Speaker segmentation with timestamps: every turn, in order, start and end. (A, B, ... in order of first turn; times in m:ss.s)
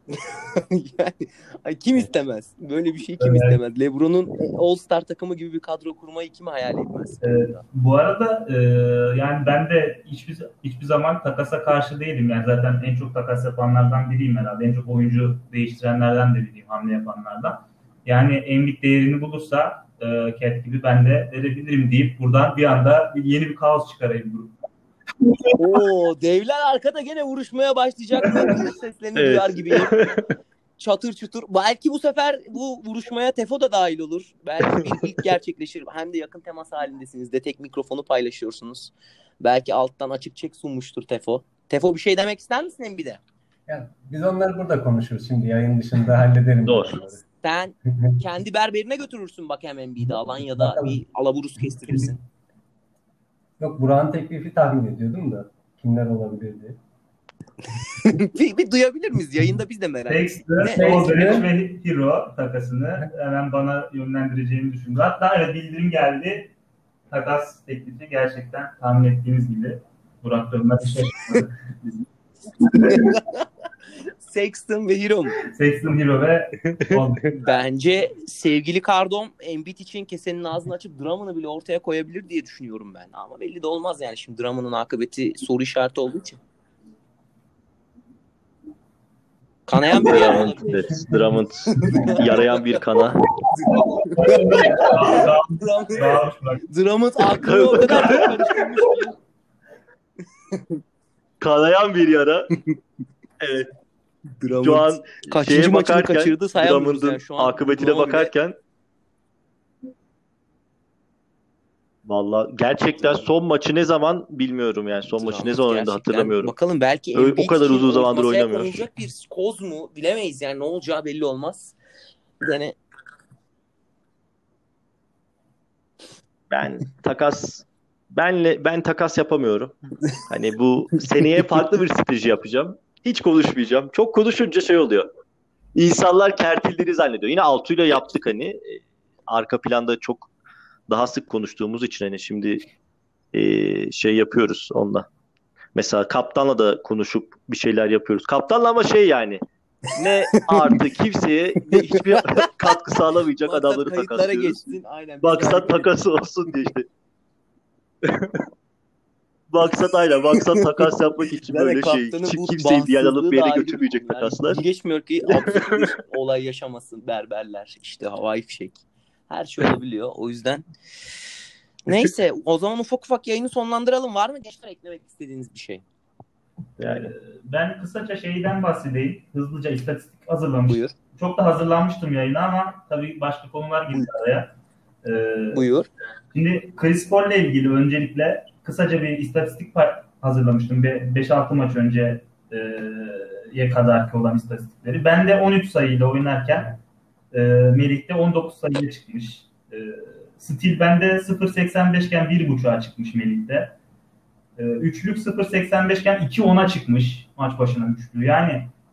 0:00.2-0:07.6 A
0:03.2-0:03.6 B
0:07.2-0:24.5 B
0:25.2-0:25.6 B
0:25.6-0:30.0 A
0:28.2-0:28.6 B
0:29.2-0:30.3 C
0:30.8-0:43.2 A
0:43.7-0:47.2 D
0:46.7-0:47.0 C
0:47.4-0:52.2 A
0:47.9-0:48.2 D
0:50.2-0:51.0 D
0:53.6-0:56.8 D
0:57.8-1:01.0 A
1:00.1-1:06.5 B
1:00.6-1:01.5 D
1:07.1-1:13.2 B
1:12.7-1:13.4 A
1:14.2-1:15.4 A
1:15.5-1:17.6 B
1:16.7-1:17.0 C
1:17.4-1:26.4 A
1:29.7-1:31.1 A
1:29.9-1:33.2 C
1:31.7-1:32.8 A
1:33.5-1:39.2 A
1:33.7-1:36.6 B
1:37.4-1:38.6 C
1:41.4-1:42.5 C
1:43.4-1:43.7 C
1:44.4-1:48.3 A
1:44.6-1:48.6 C
1:52.0-1:56.5 C
1:55.1-2:01.8 A
1:57.1-1:58.9 C
2:02.4-2:02.8 A
2:06.5-2:15.1 C
2:15.7-2:20.3 C
2:20.9-2:22.6 C
2:23.3-2:25.1 C
2:25.7-2:34.6 C
2:30.4-2:30.8 A
2:31.7-2:32.5 A
2:33.4-2:35.9 A
2:35.2-2:36.9 C
2:38.0-2:38.4 C
2:39.5-2:44.6 C
2:41.4-2:50.6 A
2:45.3-2:45.9 C
2:51.8-2:55.8 A
2:56.8-2:57.1 C
2:56.9-3:04.5 B
3:00.7-3:00.9 A
3:05.0-3:05.6 B
3:05.5-3:05.9 A
3:06.3-3:16.8 B
3:17.3-3:23.7 B
3:24.6-3:28.7 B